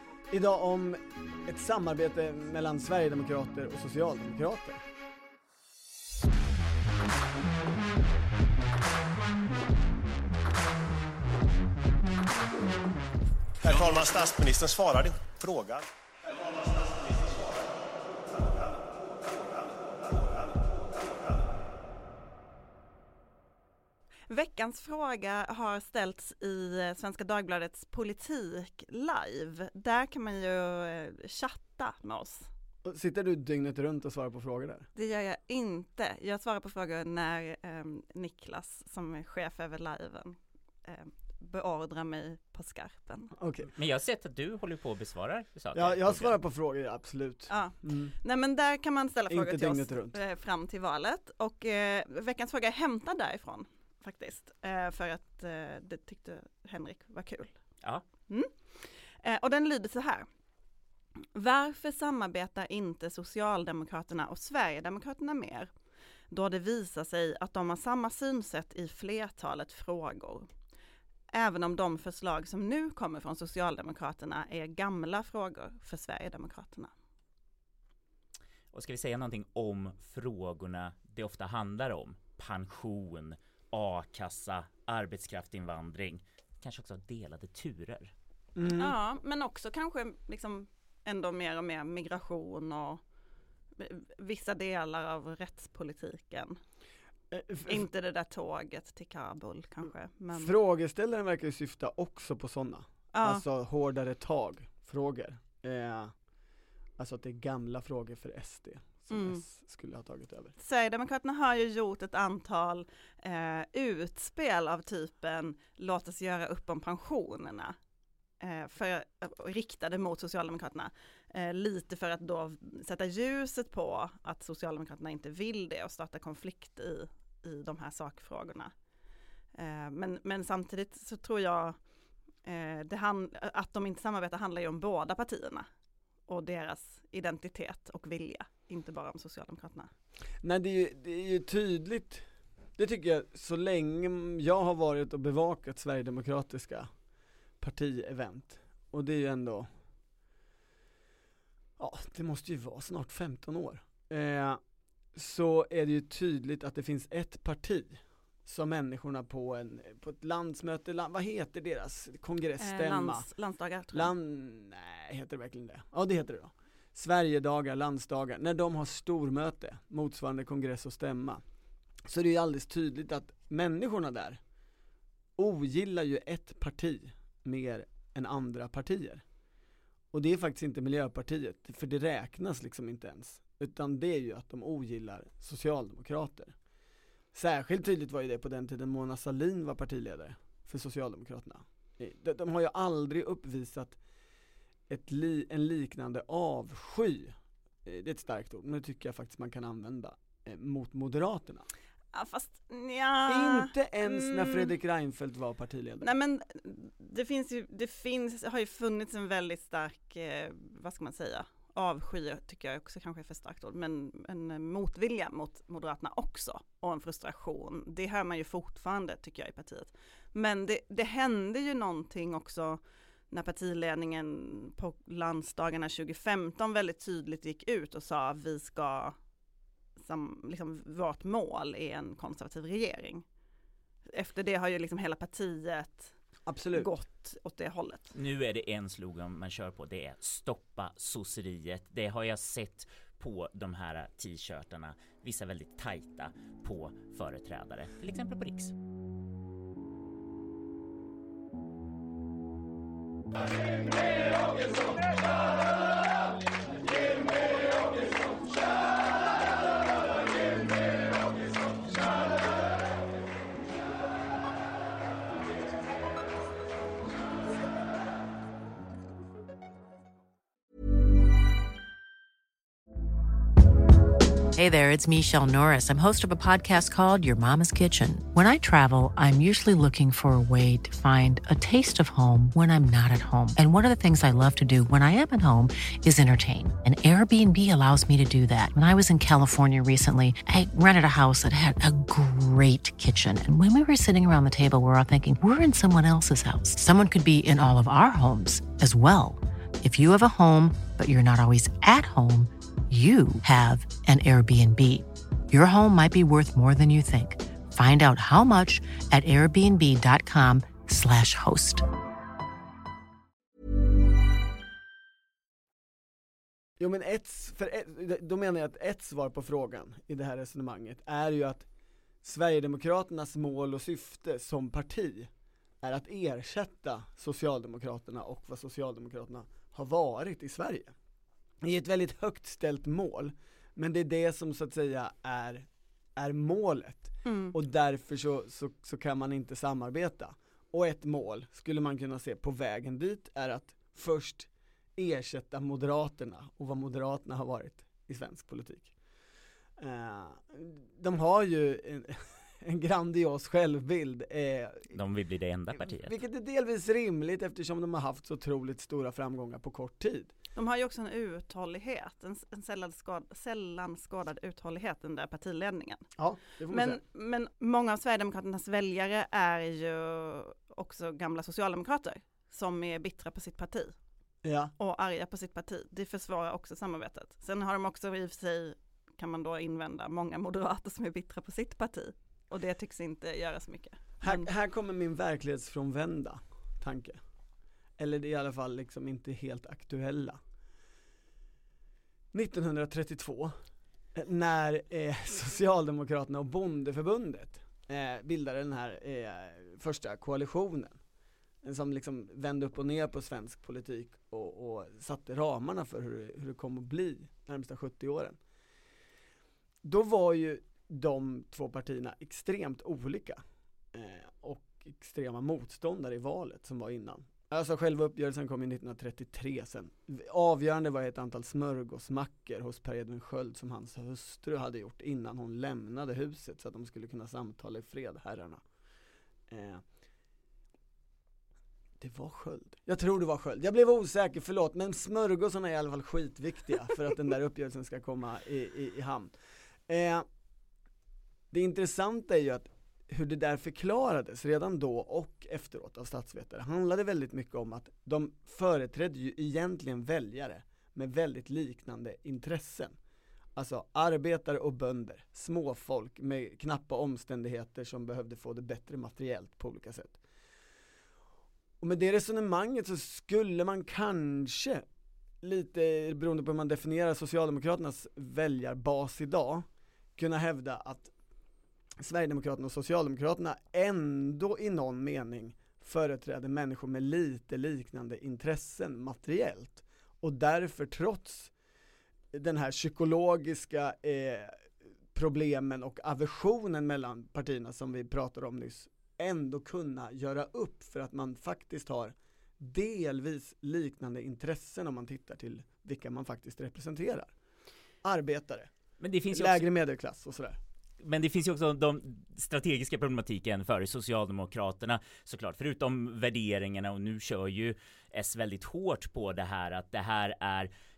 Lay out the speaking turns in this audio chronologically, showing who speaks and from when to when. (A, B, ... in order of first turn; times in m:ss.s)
0:00.3-0:04.8 A
0:13.6-0:15.8 B
0:24.3-0:32.5 C
0:32.8-0:34.9 A
0:35.0-0:43.3 C
0:43.4-0:43.7 A
0:43.7-0:46.3 D
0:45.7-0:48.1 A
0:47.5-0:57.6 C
0:49.3-0:50.2 A
0:58.3-1:00.2 C
1:01.3-1:05.7 C
1:06.3-1:10.5 C
1:11.3-1:16.9 C
1:18.7-1:28.1 D
1:28.6-1:29.0 A
1:28.8-1:33.0 C
1:33.8-1:36.6 C
1:37.3-1:37.9 A
1:37.7-1:40.5 C
1:40.3-1:46.1 A
1:43.1-1:43.4 C
1:47.0-1:50.5 A
1:49.1-1:49.4 C
1:50.6-1:57.7 C
1:58.4-2:08.7 C
2:09.6-2:11.8 C
2:12.4-2:15.7 C
2:16.3-2:19.9 C
2:20.4-2:22.2 A
2:22.8-2:26.9 A
2:27.6-2:29.7 A
2:31.8-2:34.6 A
2:35.2-2:43.3 A
2:42.6-2:44.1 C
2:43.9-2:51.4 A
2:52.1-2:54.4 A
2:55.4-2:59.2 A
3:00.1-3:06.6 A
3:07.3-3:14.0 A
3:14.9-3:21.7 A
3:22.1-3:24.7 C
3:23.3-3:26.1 A
3:26.0-3:49.2 C
3:50.0-3:53.2 C
3:54.1-3:56.1 C
3:56.5-3:56.9 A
3:56.7-3:58.2 C
3:58.2-4:08.7 D
4:34.5-5:11.8 E
5:16.8-5:21.7 A
5:22.2-5:25.3 A
5:25.8-5:30.9 A
5:31.6-5:48.9 A
5:37.2-5:37.5 C
5:49.8-5:55.0 A
5:54.9-5:56.2 D
5:55.8-6:00.3 A
6:00.5-6:06.1 C
6:06.2-6:07.0 A
6:06.7-6:13.9 C
6:14.4-6:14.7 A
6:14.8-6:24.5 C
6:24.2-6:27.2 A
6:28.0-6:30.4 A
6:32.3-6:33.5 A
6:34.1-6:41.0 A
6:41.6-6:48.4 A
6:49.8-6:53.4 A
6:53.9-7:08.6 A
7:09.5-7:09.8 A
7:12.0-7:19.3 A
7:19.9-7:20.2 A
7:21.5-7:32.9 A
7:33.6-7:40.2 A
7:41.8-7:44.8 A
7:45.4-7:49.6 A
7:50.2-7:51.1 A
7:52.0-8:01.5 A
8:02.3-8:17.3 A
8:18.0-8:18.7 A
8:19.0-8:19.6 D
8:19.3-8:20.6 A
8:21.0-8:30.7 D